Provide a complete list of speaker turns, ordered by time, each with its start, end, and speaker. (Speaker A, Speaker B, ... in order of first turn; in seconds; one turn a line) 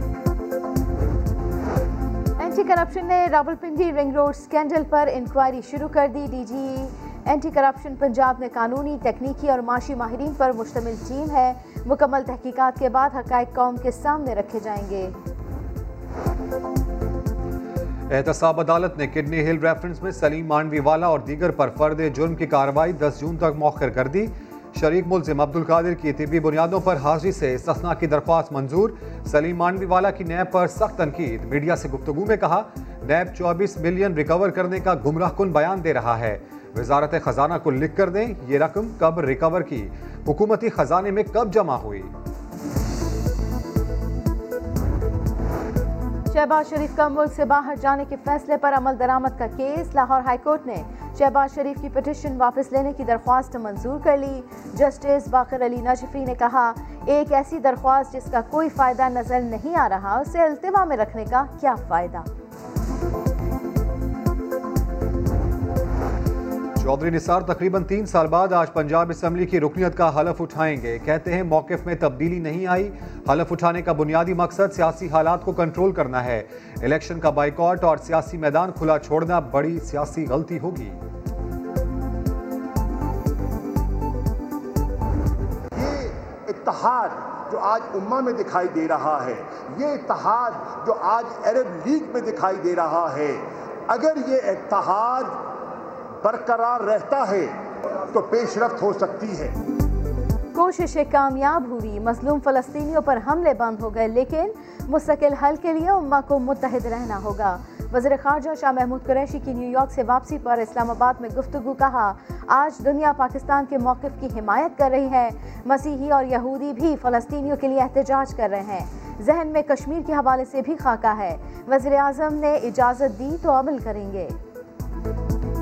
Speaker A: 2.4-15.2
Speaker B: 18.1-42.1
Speaker A: 46.3-62.3
Speaker B: 66.8-81.0
Speaker C: 85.8-93.4
Speaker C: 93.9-95.3
Speaker C: 96.2-97.5
Speaker C: 98.2-99.5
Speaker A: 100.5-124.4